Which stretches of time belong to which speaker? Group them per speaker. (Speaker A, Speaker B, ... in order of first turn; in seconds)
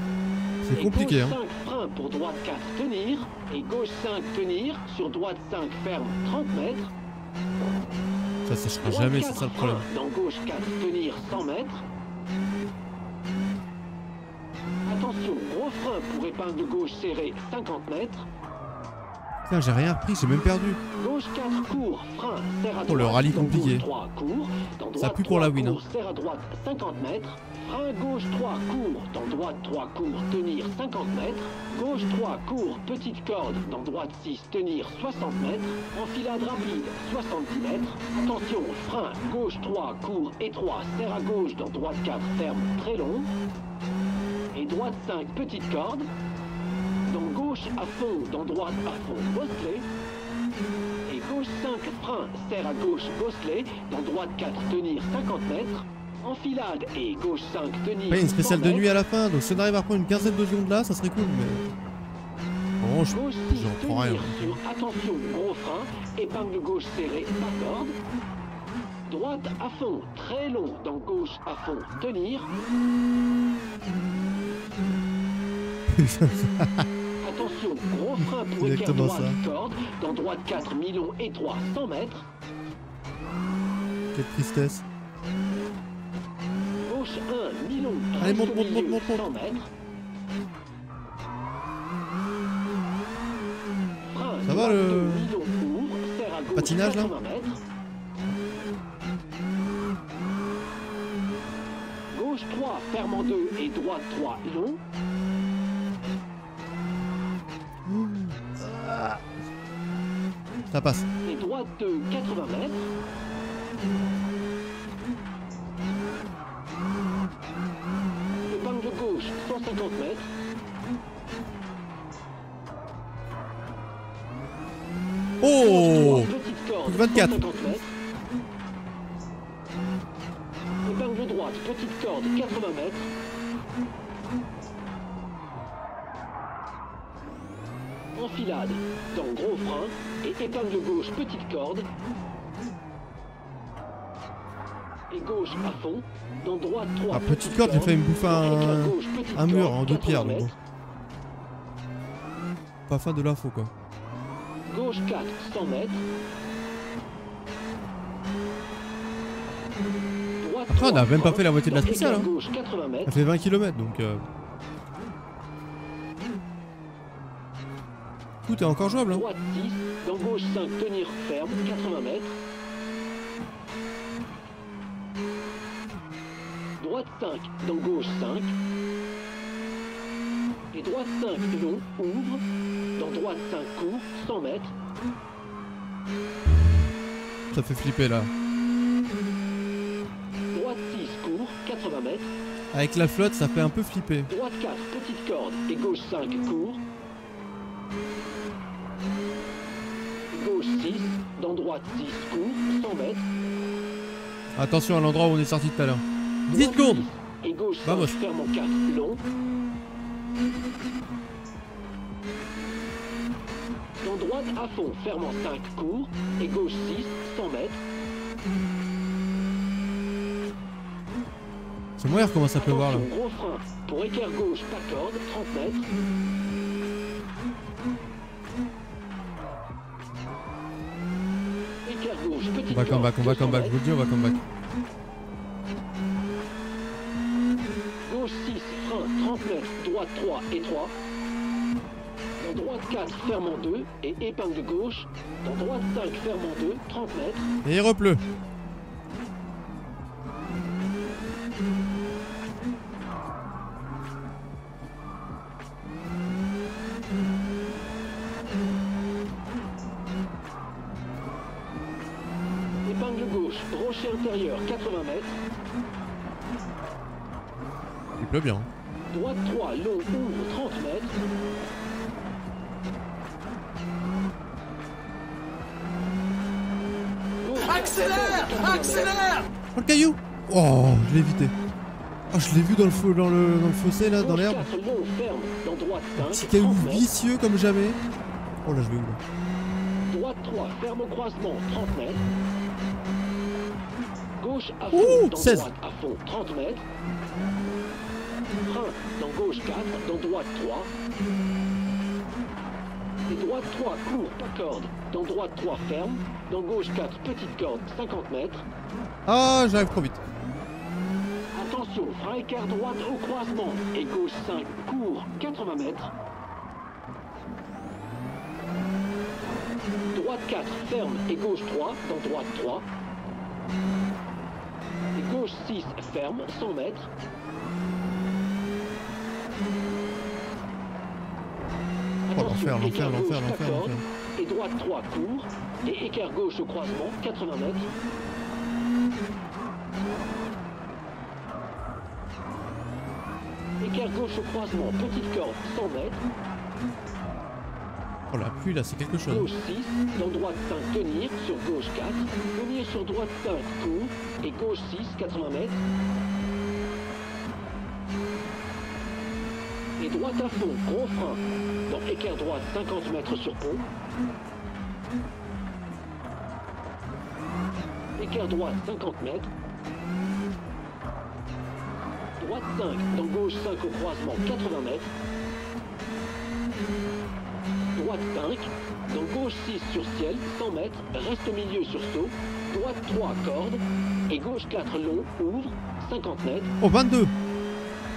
Speaker A: 0.6-1.4, 8.4-9.8, 19.4-20.8, 22.8-23.9, 25.0-25.8, 58.1-61.7, 62.8-64.6, 75.9-76.8, 78.6-79.4, 84.1-84.8, 88.2-89.2, 94.5-95.3, 96.5-97.1, 107.9-109.2, 110.7-111.1, 125.4-126.3, 126.8-127.8, 147.1-150.5, 152.9-153.7, 160.7-162.3, 163.1-164.2, 168.4-169.2, 187.5-188.3, 192.7-194.3, 204.6-207.0, 207.8-208.2, 222.0-223.1, 232.7-234.4, 247.6-248.2, 268.1-268.7, 279.7-281.5, 282.3-284.7, 286.2-288.0, 288.6-289.2, 294.9-295.7, 309.2-310.2, 332.3-334.0, 348.3-349.5, 386.8-387.3
Speaker B: 0.7-6.9, 8.8-11.8, 14.8-18.2, 21.0-43.3, 44.5-46.1, 47.1-49.9, 51.1-58.9, 63.1-67.9, 69.1-72.5, 77.2-82.2, 86.8-89.7, 94.0-97.6, 102.1-104.8, 111.2-112.9, 118.5-120.3, 125.6-127.9, 130.8-133.1, 138.1-141.9, 145.1-150.5, 154.7-156.0, 160.4-163.2, 169.1-172.3, 176.8-178.5, 180.7-182.4, 183.0-184.7, 190.5-192.3, 194.3-196.8, 200.3-203.2, 206.5-209.2, 214.0-217.8, 222.6-225.9, 231.8-233.8, 238.0-240.9, 242.4-247.5, 262.8-265.4, 269.1-271.1, 277.4-279.4, 284.2-287.1, 290.1-292.2, 294.4-296.8, 298.7-300.9, 303.3-308.6, 311.5-316.1, 320.1-322.9, 325.1-327.1, 332.2-337.9, 343.8-346.2, 349.3-355.8, 360.0-363.9, 368.2-369.5, 372.4-375.1, 377.9-386.7